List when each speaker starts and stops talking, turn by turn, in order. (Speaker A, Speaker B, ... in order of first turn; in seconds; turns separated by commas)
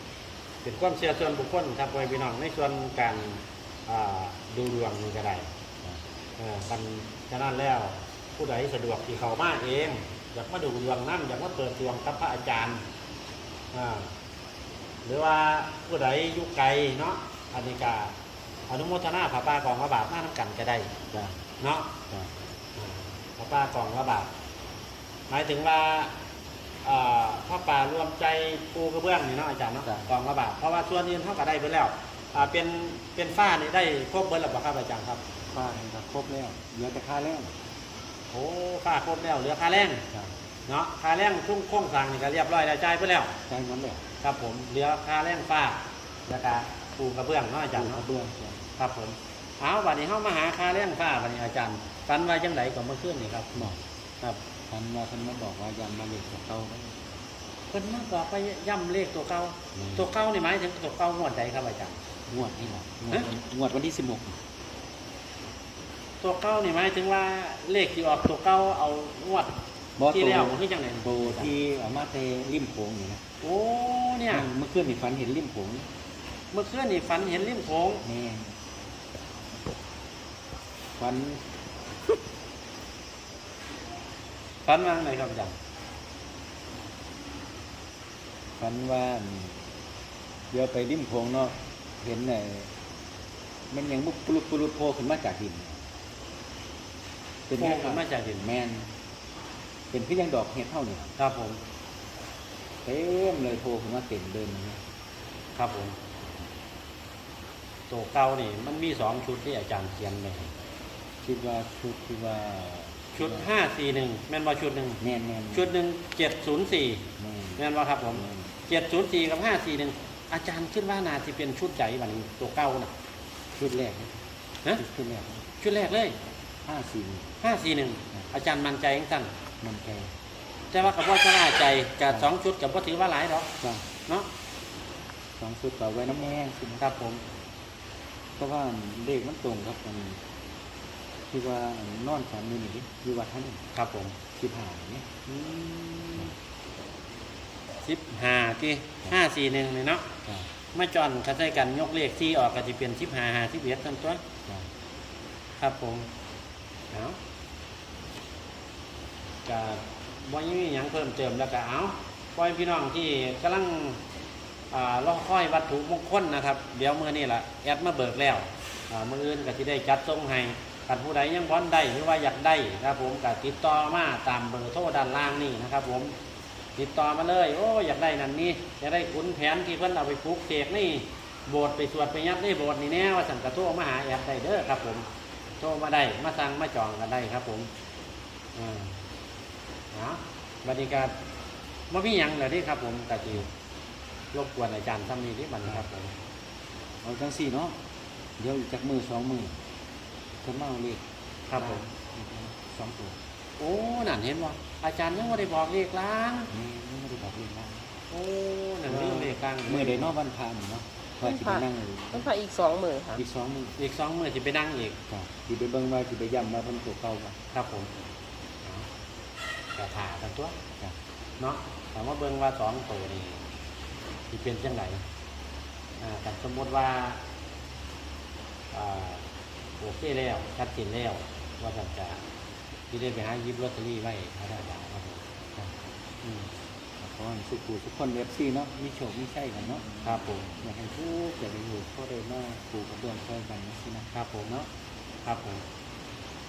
Speaker A: 0.6-5.5, Speaker A: 6.4-12.8, Speaker A: 13.7-14.1, Speaker A: 15.0-18.1, Speaker A: 18.7-20.9, Speaker B: 21.1-21.4, Speaker A: 21.6-21.9, Speaker A: 22.8-24.3, Speaker A: 25.3-26.1, Speaker A: 26.8-35.2, Speaker B: 29.8-30.1, Speaker B: 35.5-37.5, Speaker A: 38.3-40.1, Speaker A: 40.7-43.4, Speaker B: 43.5-44.0, Speaker A: 44.2-48.0, Speaker B: 47.7-48.6, Speaker A: 48.8-54.4, Speaker B: 53.5-53.8, Speaker B: 54.7-57.0, Speaker A: 57.7-62.0, Speaker B: 59.8-60.1, Speaker B: 62.3-64.4, Speaker A: 66.2-71.6, Speaker B: 70.0-73.2, Speaker A: 73.4-74.5, Speaker B: 74.3-75.9, Speaker A: 76.5-78.0, Speaker B: 78.0-78.6, Speaker B: 81.0-81.4, Speaker A: 84.7-85.5, Speaker B: 88.6-89.7, Speaker B: 90.5-92.7, Speaker B: 93.7-95.8, Speaker B: 97.5-98.9, Speaker A: 97.6-98.4, Speaker B: 99.9-101.1, Speaker A: 101.2-101.6, Speaker B: 102.8-104.8, Speaker A: 105.5-106.0, Speaker A: 107.9-110.5, Speaker B: 111.2-113.5, Speaker A: 113.2-122.9, Speaker B: 115.0-115.7, Speaker B: 117.2-118.5, Speaker B: 123.5-124.2, Speaker B: 124.7-125.5, Speaker A: 125.6-126.2, Speaker B: 126.7-127.3, Speaker A: 127.4-129.3, Speaker B: 129.6-130.1, Speaker A: 130.7-133.5, Speaker B: 133.6-133.9, Speaker B: 135.4-136.9, Speaker A: 136.8-137.2, Speaker B: 138.4-140.2, Speaker B: 141.3-143.6, Speaker A: 143.7-144.2, Speaker B: 144.4-145.1, Speaker A: 145.3-146.3, Speaker A: 147.8-150.1, Speaker A: 150.7-154.2, Speaker A: 155.6-156.1, Speaker A: 156.9-157.2, Speaker A: 159.4-164.0, Speaker A: 164.7-176.1, Speaker A: 176.8-185.1, Speaker A: 185.6-187.7, Speaker A: 188.6-189.0, Speaker A: 189.9-191.2, Speaker A: 191.9-193.5, Speaker A: 194.3-196.1, Speaker B: 197.0-197.8, Speaker B: 198.4-199.6, Speaker B: 200.4-201.0, Speaker A: 201.5-201.9, Speaker B: 201.5-203.2, Speaker A: 203.6-206.5, Speaker B: 206.5-207.9, Speaker A: 208.1-210.2, Speaker B: 208.8-212.3, Speaker C: 211.2-213.2, Speaker B: 213.2-213.8, Speaker A: 213.8-215.0, Speaker B: 215.1-217.4, Speaker A: 217.5-217.9, Speaker A: 219.8-220.6, Speaker A: 221.4-223.4, Speaker A: 224.3-225.0, Speaker A: 226.0-227.2, Speaker A: 228.7-229.3, Speaker A: 229.8-232.2, Speaker A: 232.9-235.2, Speaker A: 236.2-236.5, Speaker B: 237.0-244.7, Speaker A: 240.0-240.6, Speaker A: 244.1-244.6, Speaker A: 245.2-245.6